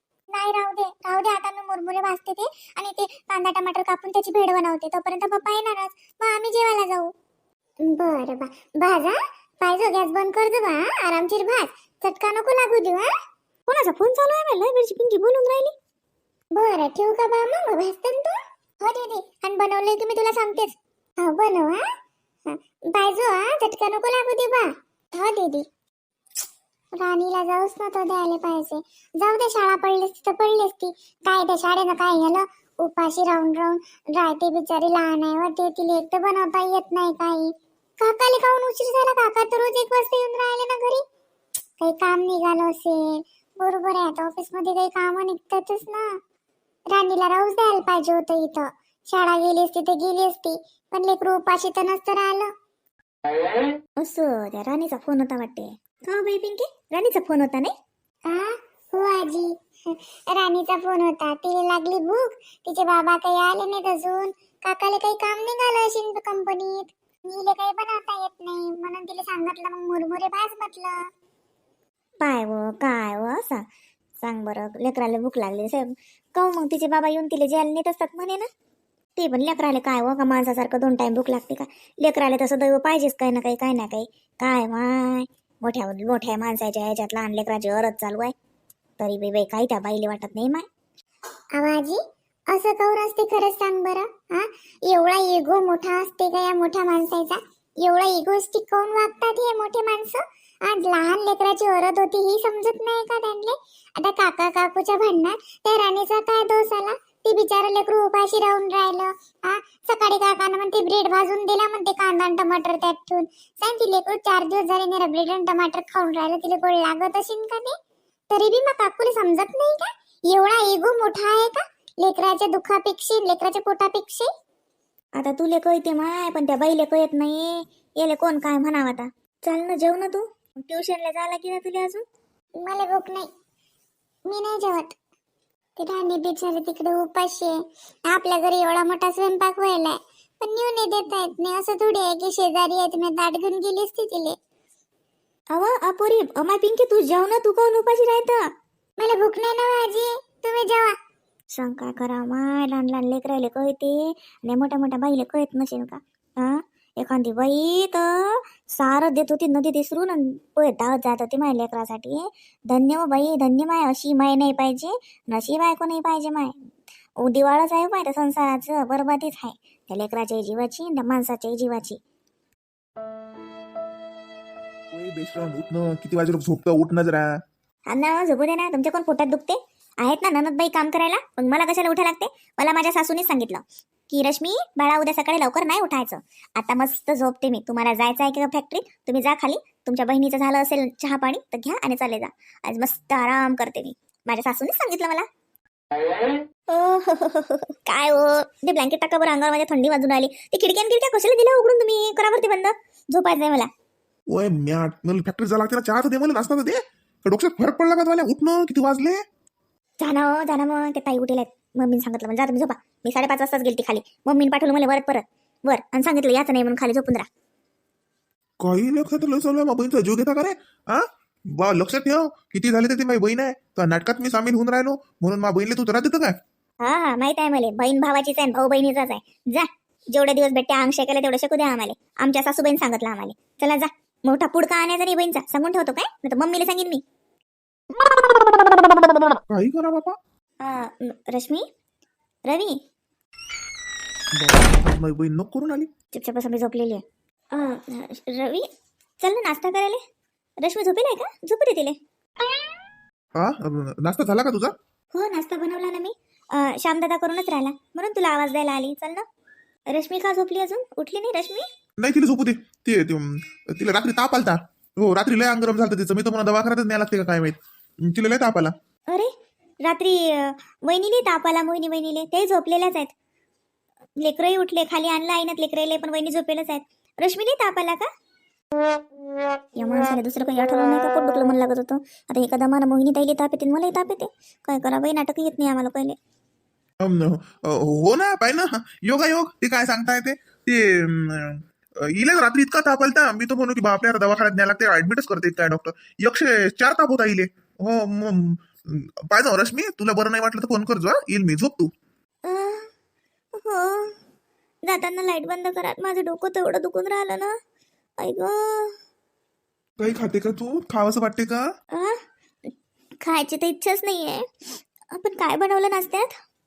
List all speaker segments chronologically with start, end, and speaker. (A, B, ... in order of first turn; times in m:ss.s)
0:00.3-0:07.1 A
0:07.8-0:13.1 A
0:13.7-0:15.7 B
0:16.6-0:21.8 A
0:22.5-0:25.7 A
0:27.0-0:41.0 A
0:41.8-0:46.1 A
0:46.9-0:52.5 A
0:54.0-0:57.7 B
0:58.3-1:11.1 A
1:12.2-1:13.6 B
1:14.2-1:18.5 B
1:19.2-1:28.3 B
1:29.0-1:30.7 B
1:31.6-1:57.8 A
1:58.3-2:04.3 A
2:05.2-2:12.0 B
2:12.6-2:13.3 A
2:14.3-2:15.0 A
2:15.8-2:17.6 A
2:18.1-2:24.4 A
2:25.5-2:28.4 B
2:29.0-2:31.0 A
2:31.5-2:46.6 B
2:47.2-2:52.0 B
2:54.9-2:57.4 C
2:57.9-3:15.3 B
3:16.7-3:23.7 B
3:24.3-3:29.2 C
3:30.0-3:37.3 B
3:38.6-3:46.4 C
3:46.8-3:57.0 B
3:59.4-4:00.2 C
4:00.6-4:01.6 B
4:02.5-4:02.8 B
4:04.4-4:05.9 C
4:06.1-4:08.7 B
4:09.2-4:10.0 B
4:10.6-4:12.0 B
4:13.4-4:14.8 C
4:15.1-4:19.2 B
4:19.9-4:21.7 B
4:22.0-4:28.8 C
4:29.8-4:33.1 B
4:34.2-4:38.1 B
4:39.8-4:46.2 B
4:47.0-5:01.9 C
5:02.4-5:02.9 B
5:03.6-5:04.2 B
5:04.8-5:07.6 B
5:08.2-5:09.0 B
5:10.0-5:11.7 C
5:11.9-5:12.7 B
5:13.2-5:14.5 B
5:15.1-5:16.4 B